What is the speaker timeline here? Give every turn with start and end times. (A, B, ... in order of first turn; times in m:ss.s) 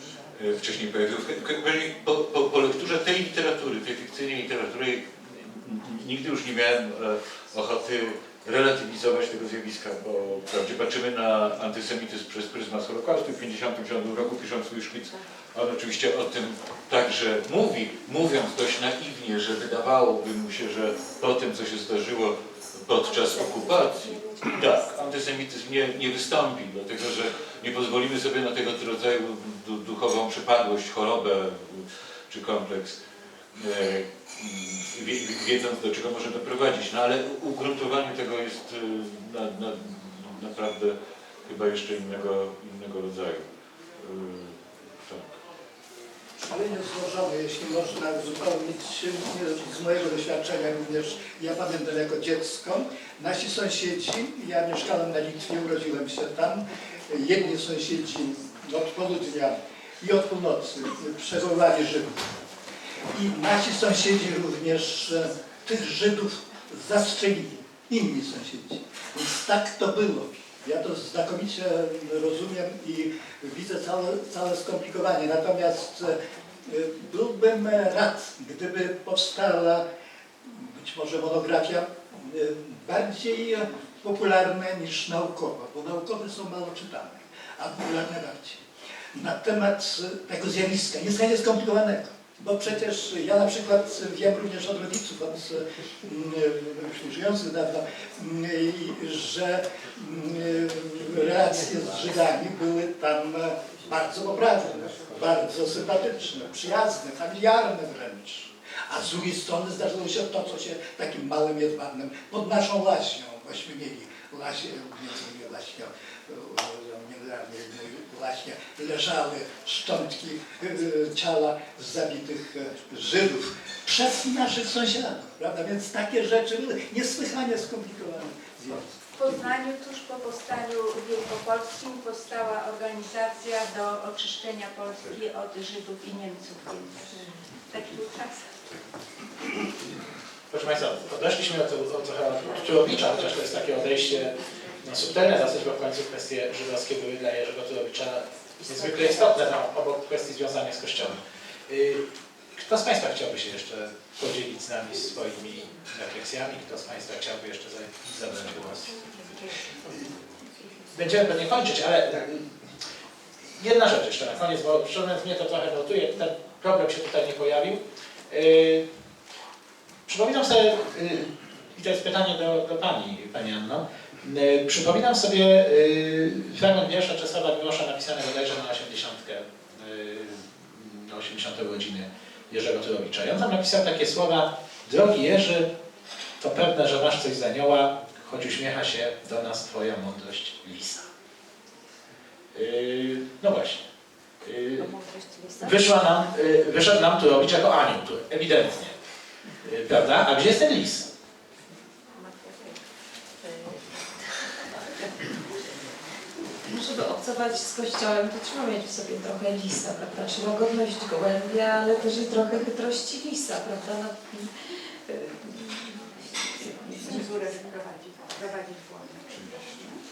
0:00.4-0:33.0 A
0:33.6-0:43.5 A
0:44.0-0:45.4 A
0:46.4-1:02.1 B
1:03.1-1:19.8 B
1:20.5-1:28.6 B
1:29.1-2:09.6 B
2:09.2-2:18.5 C
2:20.5-2:32.0 D
2:28.7-2:29.4 E
2:32.6-2:38.9 D
2:40.9-2:42.5 D
2:43.6-2:48.9 D
2:50.1-3:05.7 D
3:06.4-3:11.1 D
3:12.5-3:13.8 D
3:14.4-3:14.9 D
3:14.8-3:15.9 E
3:15.6-3:19.0 D
3:19.6-3:21.1 D
3:26.7-3:34.5 E
3:35.1-3:37.5 E
3:37.0-3:40.0 C